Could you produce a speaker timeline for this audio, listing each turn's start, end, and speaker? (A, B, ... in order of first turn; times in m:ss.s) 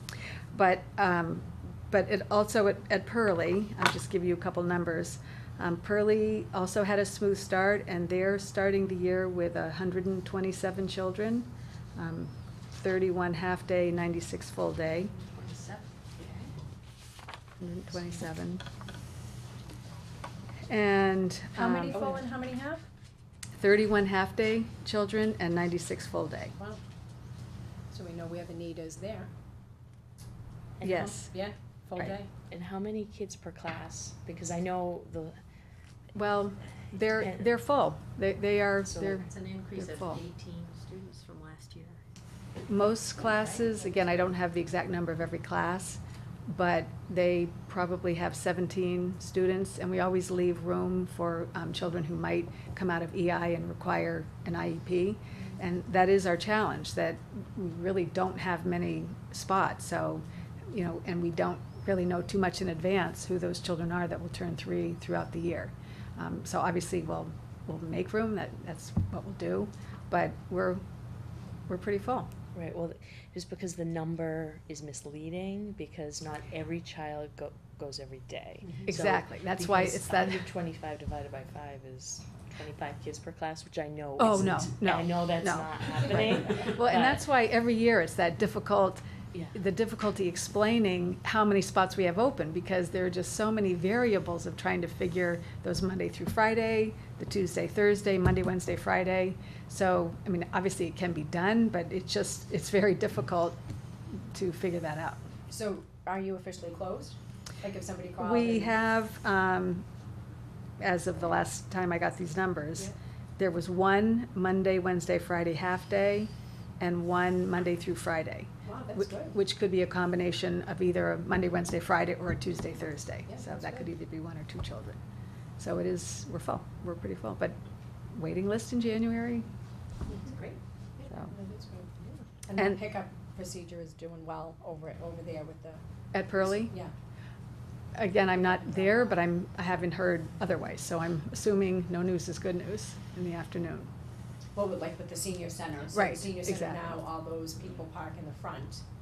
0:00.5-0:15.1 A
0:15.3-0:15.6 B
0:17.6-0:18.6 A
0:20.7-0:22.2 A
0:21.5-0:22.8 C
0:23.6-0:26.6 A
0:27.9-0:29.3 C
0:30.8-0:31.2 D
0:30.8-0:31.3 A
0:30.9-0:32.3 C
0:32.0-0:35.4 D
0:36.1-0:39.2 A
0:37.2-0:37.4 D
0:38.9-0:39.3 D
0:39.2-0:42.0 B
0:39.8-0:40.2 A
0:42.7-1:10.8 A
1:11.7-1:12.3 A
1:12.5-1:27.3 D
1:18.9-1:20.4 A
1:24.2-1:29.0 A
1:29.5-1:43.6 A
1:44.3-1:45.2 A
1:45.5-1:48.7 C
1:48.2-1:49.9 A
1:50.8-2:05.0 A
1:58.6-1:59.4 C
2:03.3-2:03.9 C
2:05.6-2:07.6 A
2:08.1-2:09.5 A
2:10.1-2:10.6 C
2:11.0-2:11.3 A
2:11.3-2:15.8 C
2:12.6-2:12.8 A
2:16.1-2:16.7 A
2:16.4-2:16.9 C
2:17.9-2:23.9 A
2:18.3-2:19.2 C
2:24.5-2:28.8 C
2:25.9-2:26.9 A